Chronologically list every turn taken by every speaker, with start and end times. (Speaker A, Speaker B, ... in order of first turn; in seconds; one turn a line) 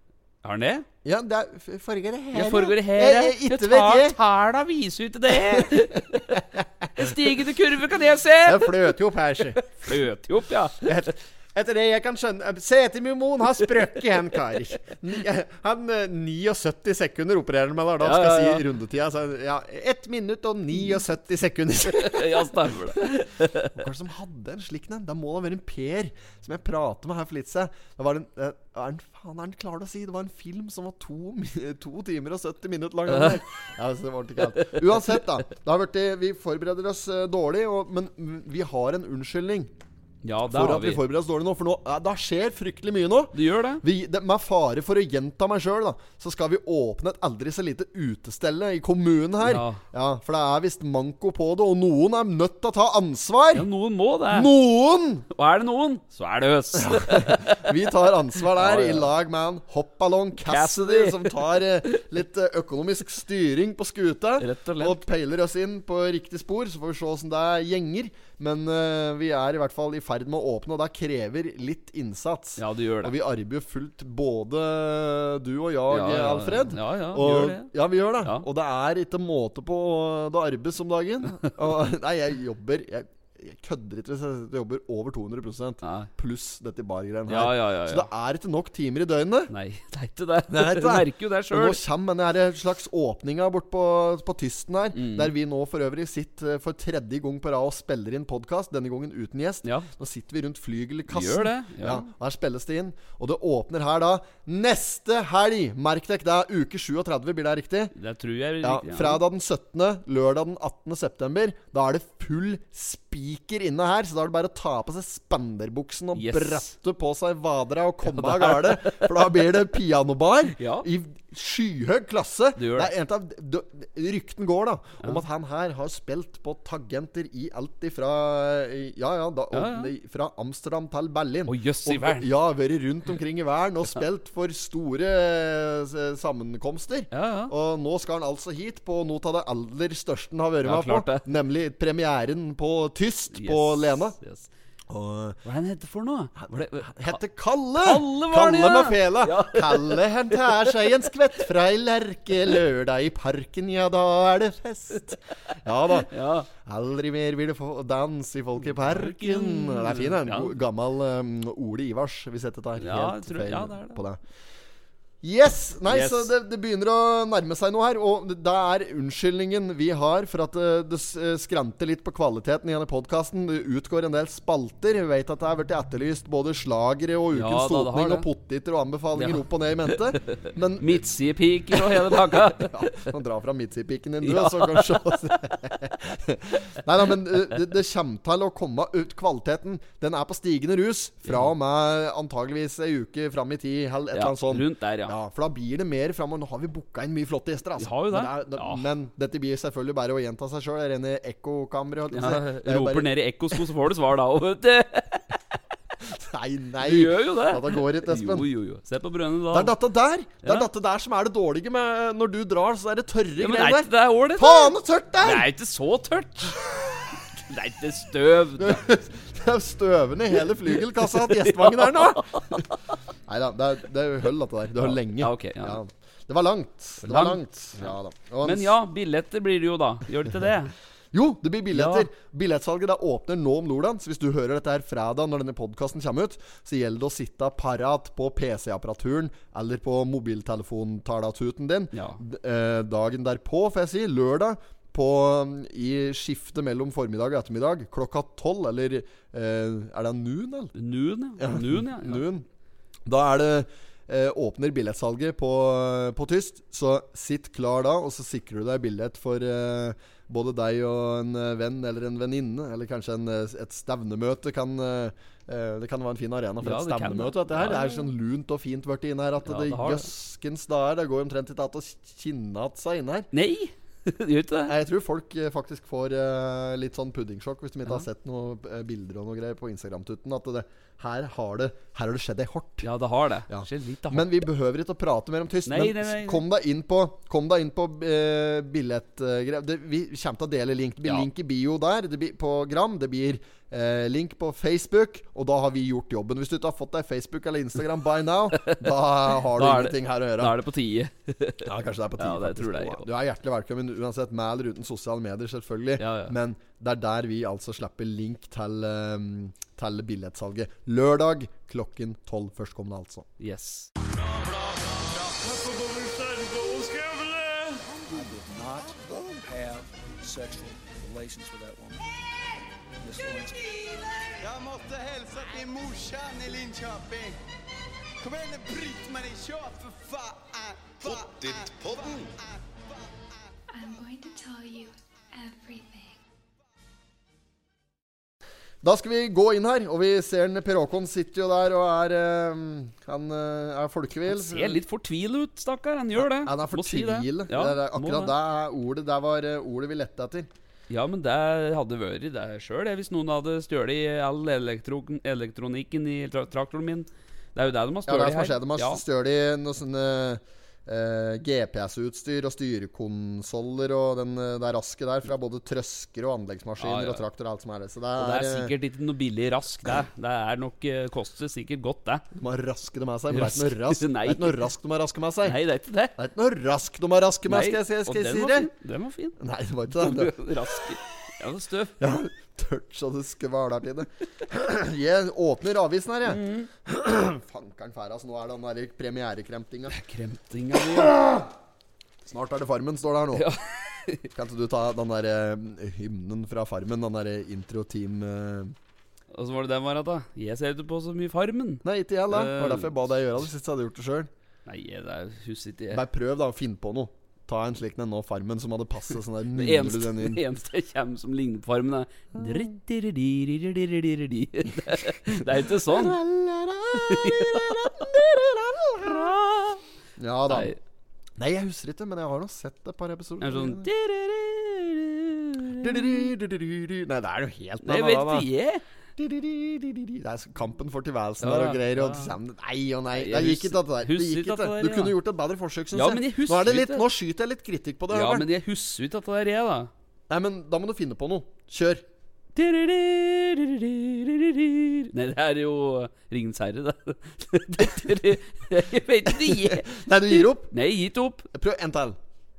Speaker A: 0.4-0.9
Speaker B: 1.0-4.2
Speaker A: 2.3-6.4
Speaker B: 5.3-7.1
Speaker A: 7.0-8.9
Speaker B: 8.4-10.0
Speaker A: 9.8-10.9
Speaker B: 10.8-39.7
Speaker A: 18.0-18.6
Speaker A: 21.9-23.8
Speaker A: 40.2-41.0
Speaker B: 40.5-53.7
Speaker A: 43.3-43.8
Speaker A: 49.4-49.8
Speaker A: 53.5-54.5
Speaker B: 54.3-55.3
Speaker A: 55.3-57.8
Speaker B: 56.8-89.5
Speaker A: 58.4-59.1
Speaker A: 60.4-61.7
Speaker A: 64.4-65.0
Speaker A: 72.6-73.1
Speaker A: 75.9-78.5
Speaker A: 85.8-86.1
Speaker A: 87.3-88.1
Speaker A: 89.5-91.8
Speaker B: 90.5-107.9
Speaker A: 94.9-95.3
Speaker A: 101.1-102.1
Speaker A: 107.9-109.2
Speaker B: 108.6-144.2
Speaker A: 116.1-116.7
Speaker A: 118.0-119.1
Speaker A: 120.5-120.9
Speaker A: 122.5-122.9
Speaker A: 129.5-129.9
Speaker A: 131.5-132.3
Speaker A: 137.1-137.5
Speaker A: 140.6-141.2
Speaker A: 143.3-144.5
Speaker B: 144.9-145.4
Speaker A: 145.4-147.2
Speaker B: 146.4-164.2
Speaker A: 147.8-150.7
Speaker A: 156.0-156.5
Speaker A: 158.7-160.6
Speaker A: 162.8-164.0
Speaker B: 165.2-181.1
Speaker A: 165.9-166.3
Speaker A: 177.3-178.3
Speaker A: 179.2-183.1
Speaker B: 181.7-203.6
Speaker A: 184.2-185.0
Speaker A: 194.1-195.1
Speaker A: 197.8-198.9
Speaker A: 202.1-205.3
Speaker B: 206.0-208.5
Speaker A: 206.8-209.7
Speaker B: 209.5-215.5
Speaker A: 213.4-216.6
Speaker A: 217.5-218.8
Speaker B: 218.6-222.7
Speaker A: 221.0-222.7
Speaker B: 223.3-228.8
Speaker A: 224.8-225.8
Speaker A: 227.0-230.7
Speaker B: 231.1-250.7
Speaker A: 231.7-232.1
Speaker A: 241.9-242.2
Speaker A: 250.7-252.3
Speaker B: 251.4-252.4
Speaker B: 253.1-273.3
Speaker A: 266.6-268.1
Speaker A: 269.4-270.1
Speaker A: 273.3-274.7
Speaker B: 274.6-282.9
Speaker A: 282.8-284.3
Speaker B: 283.5-300.6
Speaker A: 285.6-286.4
Speaker A: 298.5-298.9
Speaker A: 299.4-303.1
Speaker B: 301.6-313.3
Speaker A: 306.0-306.3
Speaker A: 313.4-313.9
Speaker C: 314.0-322.1
Speaker C: 323.0-324.1
Speaker D: 324.4-327.4
Speaker D: 328.2-333.4
Speaker C: 331.1-332.2
Speaker E: 333.7-336.2
Speaker B: 338.8-344.8
Speaker A: 344.3-348.3
Speaker B: 346.1-350.5
Speaker A: 350.9-359.0
Speaker B: 358.1-368.7
Speaker A: 366.8-367.2
Speaker A: 368.2-372.2
Speaker B: 372.3-375.6
Speaker A: 373.3-374.7
Speaker A: 375.4-376.1
Speaker B: 376.1-378.7
Speaker A: 377.4-379.4
Speaker B: 379.4-380.5
Speaker A: 379.9-382.0
Speaker B: 382.0-389.9
Speaker A: 386.2-386.7
Speaker A: 389.9-391.2
Speaker B: 390.9-391.5
Speaker B: 392.2-393.4
Speaker A: 393.3-394.3
Speaker B: 394.3-398.7
Speaker A: 399.3-402.9
Speaker B: 401.8-404.3
Speaker A: 404.6-406.0
Speaker B: 405.9-410.4
Speaker A: 409.5-416.2
Speaker B: 415.6-419.3
Speaker A: 416.9-418.2
Speaker A: 419.0-419.8
Speaker B: 420.2-420.7
Speaker A: 420.5-420.8
Speaker B: 421.4-423.9
Speaker A: 423.4-426.2
Speaker B: 425.8-428.5
Speaker A: 427.8-428.8
Speaker B: 429.2-438.5
Speaker A: 431.4-432.3
Speaker A: 433.1-435.1
Speaker A: 435.9-437.1
Speaker A: 438.1-439.9
Speaker B: 440.3-442.0
Speaker A: 442.5-451.5
Speaker B: 449.3-450.7
Speaker B: 451.5-452.2